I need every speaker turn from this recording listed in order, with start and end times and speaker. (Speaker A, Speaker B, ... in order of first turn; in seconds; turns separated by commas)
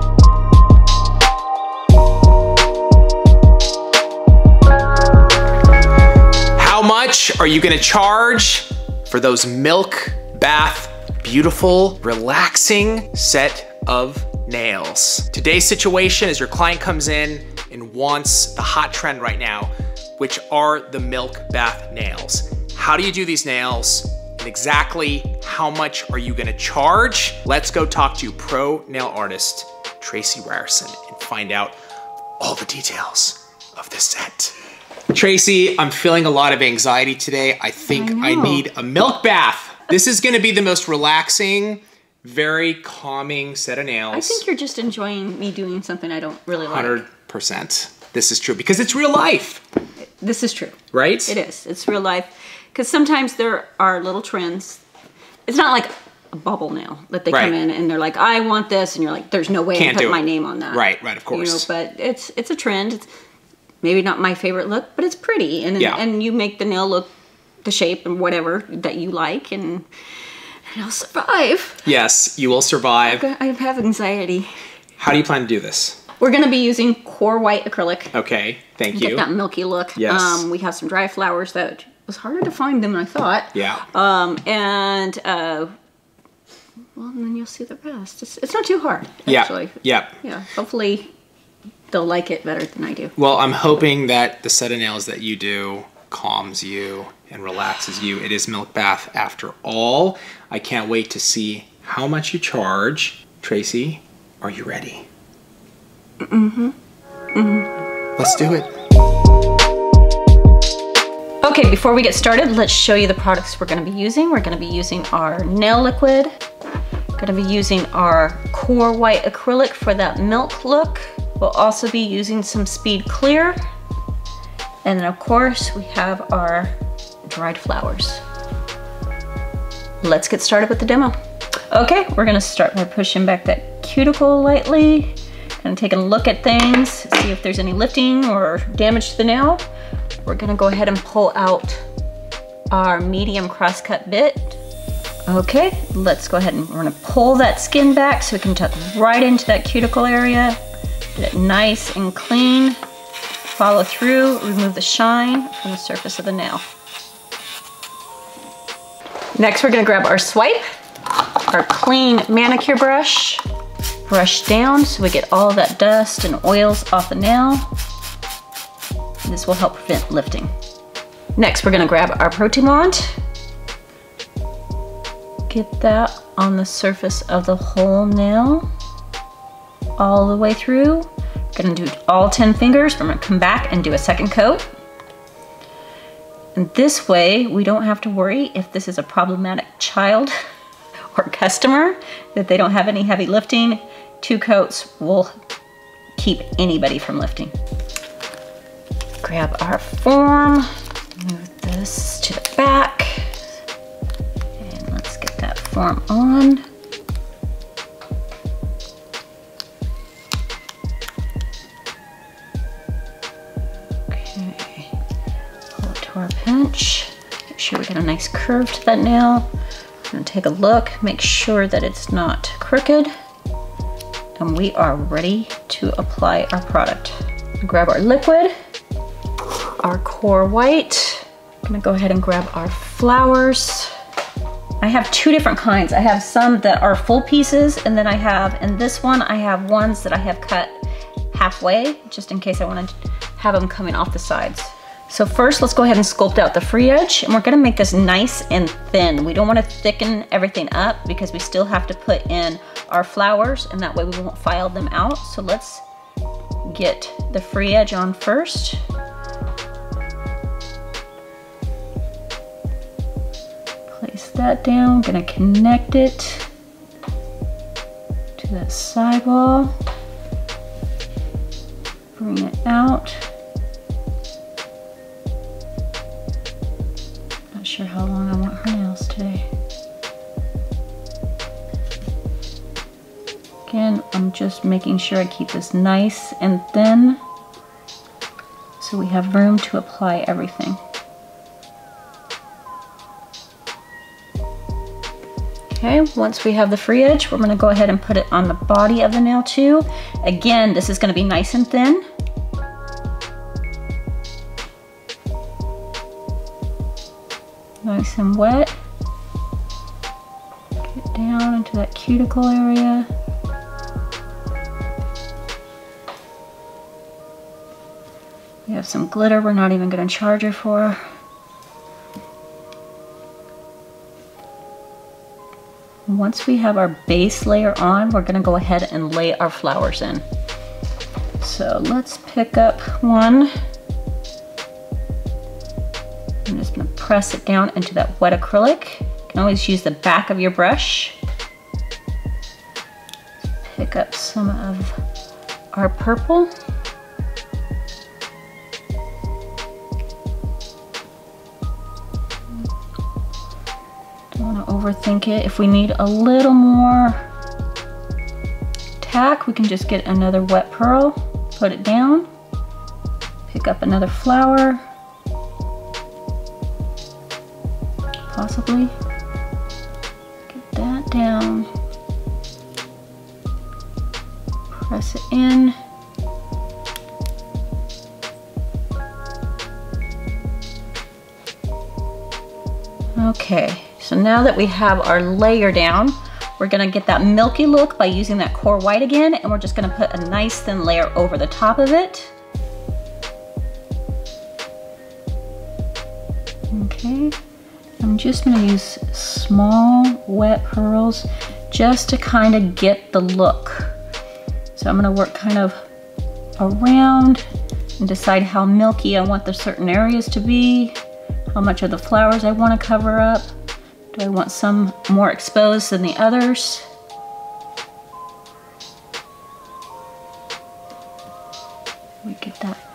Speaker A: 6.6-31.8, Speaker A: 32.4-34.6, Speaker A: 35.1-44.4, Speaker B: 37.9-38.6, Speaker B: 44.1-47.0, Speaker A: 46.5-49.6, Speaker B: 50.2-54.8, Speaker A: 50.9-51.4, Speaker B: 55.5-63.1, Speaker A: 57.3-57.5, Speaker A: 59.8-61.7, Speaker B: 63.8-67.1, Speaker B: 67.6-69.9, Speaker B: 70.7-71.9, Speaker A: 71.8-73.2, Speaker B: 73.0-74.5, Speaker A: 75.0-76.0, Speaker B: 76.2-78.1, Speaker A: 78.1-79.3, Speaker B: 78.9-85.7, Speaker A: 80.0-80.5, Speaker A: 83.5-83.9, Speaker B: 87.0-91.1, Speaker A: 89.3-90.2, Speaker B: 91.9-93.1, Speaker A: 93.2-105.1, Speaker B: 106.2-106.8, Speaker B: 107.3-107.7, Speaker A: 108.2-108.7, Speaker B: 111.4-116.3, Speaker B: 117.2-123.6, Speaker B: 124.8-128.2, Speaker B: 130.0-131.2, Speaker B: 131.7-139.6, Speaker B: 140.2-141.8, Speaker B: 142.7-144.6, Speaker B: 145.3-150.6, Speaker B: 151.2-152.8, Speaker B: 153.5-156.7, Speaker B: 159.4-160.6, Speaker B: 161.5-163.4, Speaker B: 164.1-167.7, Speaker B: 169.2-170.5, Speaker B: 171.4-173.2, Speaker B: 175.5-178.7, Speaker B: 180.0-184.6, Speaker B: 186.6-190.3, Speaker B: 191.1-195.3, Speaker B: 196.2-197.5, Speaker B: 199.2-203.4, Speaker B: 204.6-206.7, Speaker B: 214.1-214.9, Speaker B: 215.8-219.5, Speaker B: 220.1-223.1, Speaker B: 224.4-228.5, Speaker B: 229.8-233.9, Speaker B: 234.8-240.8, Speaker B: 241.3-255.8, Speaker B: 256.6-258.8, Speaker B: 263.9-266.5, Speaker B: 268.4-269.7, Speaker B: 272.2-273.3, Speaker B: 277.5-279.5, Speaker B: 283.7-287.2, Speaker B: 288.8-290.8, Speaker B: 295.7-302.1, Speaker B: 307.8-308.7, Speaker B: 310.9-313.1, Speaker B: 318.7-321.0, Speaker B: 326.1-330.2, Speaker B: 331.4-333.5, Speaker B: 336.5-341.2, Speaker B: 343.6-345.0, Speaker B: 345.7-346.5, Speaker B: 354.4-357.2, Speaker B: 359.0-362.3, Speaker B: 363.5-364.8, Speaker B: 368.3-368.9, Speaker B: 370.5-371.7, Speaker B: 374.7-375.8, Speaker B: 383.2-392.3, Speaker B: 396.7-397.4, Speaker B: 398.0-404.0, Speaker B: 404.8-405.9, Speaker B: 406.6-407.4, Speaker B: 408.0-411.0, Speaker B: 411.5-413.5, Speaker B: 414.1-416.9, Speaker B: 422.2-422.8